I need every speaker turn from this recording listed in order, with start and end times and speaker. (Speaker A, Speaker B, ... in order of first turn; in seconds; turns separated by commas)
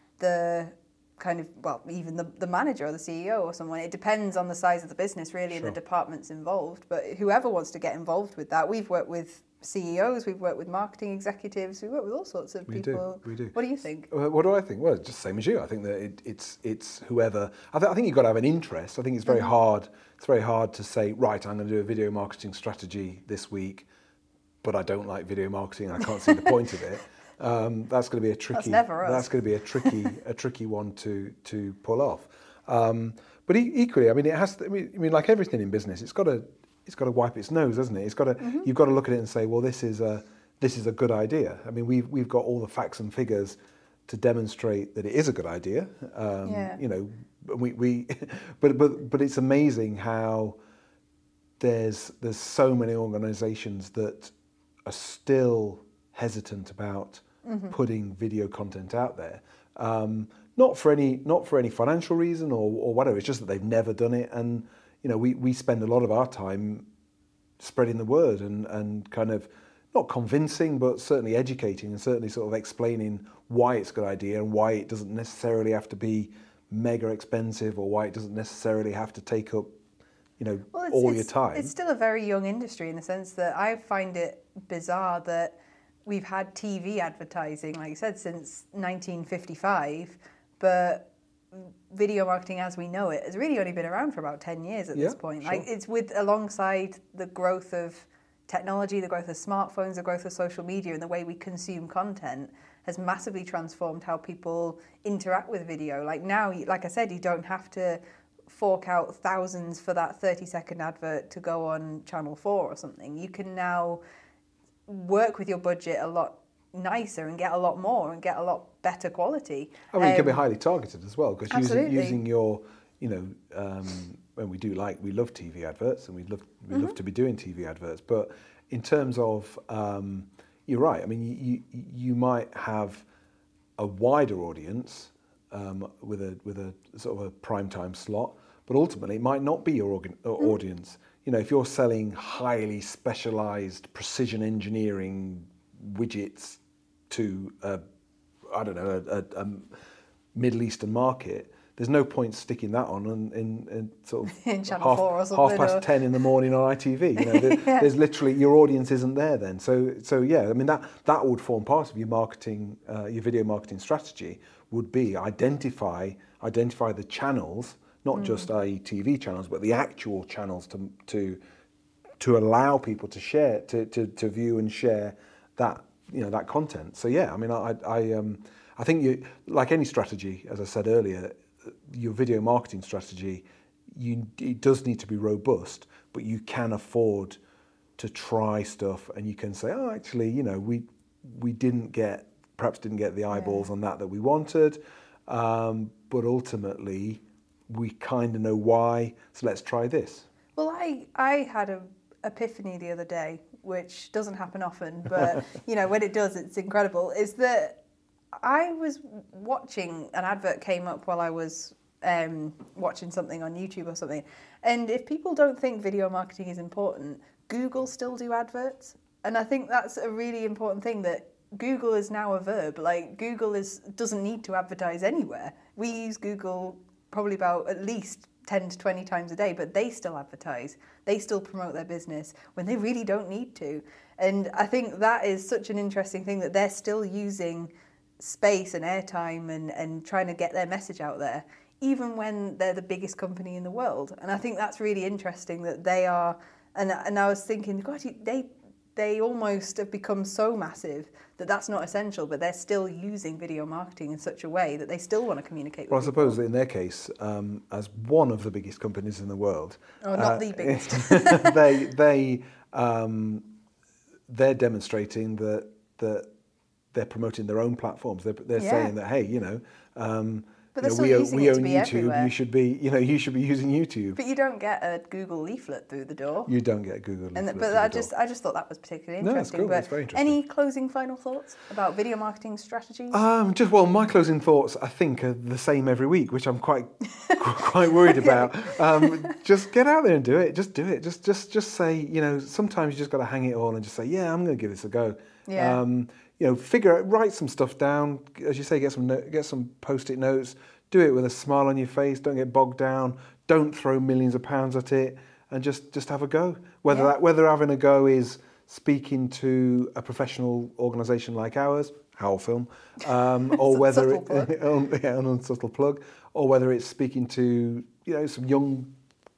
Speaker A: 0.2-14.1, Speaker B: 5.5-5.8, Speaker B: 12.7-13.6, Speaker B: 14.1-23.9, Speaker B: 24.6-50.6, Speaker A: 28.5-30.0, Speaker A: 38.4-38.7, Speaker A: 46.5-46.8, Speaker B: 51.6-54.3, Speaker B: 54.9-66.9, Speaker A: 57.4-57.7, Speaker B: 67.6-79.8, Speaker B: 80.4-81.7, Speaker A: 80.7-114.0, Speaker B: 95.0-95.7, Speaker A: 114.9-120.4, Speaker B: 119.9-133.1, Speaker A: 121.5-122.2, Speaker B: 133.8-147.8, Speaker B: 148.5-149.7, Speaker B: 150.3-171.4, Speaker A: 154.3-156.2, Speaker A: 157.2-157.9, Speaker A: 168.1-168.5, Speaker B: 172.2-187.4, Speaker B: 188.0-200.3, Speaker A: 193.3-193.7, Speaker A: 200.6-207.8, Speaker A: 208.4-256.4, Speaker B: 255.9-263.5, Speaker A: 260.0-261.6, Speaker B: 264.3-266.3, Speaker B: 266.9-274.2, Speaker A: 268.6-268.9, Speaker A: 270.8-272.3, Speaker A: 274.1-276.5, Speaker B: 276.5-278.1, Speaker A: 277.4-283.2, Speaker B: 279.2-280.4, Speaker B: 283.1-318.9, Speaker A: 287.9-289.4, Speaker A: 295.5-295.8, Speaker A: 306.9-307.1, Speaker A: 313.5-314.5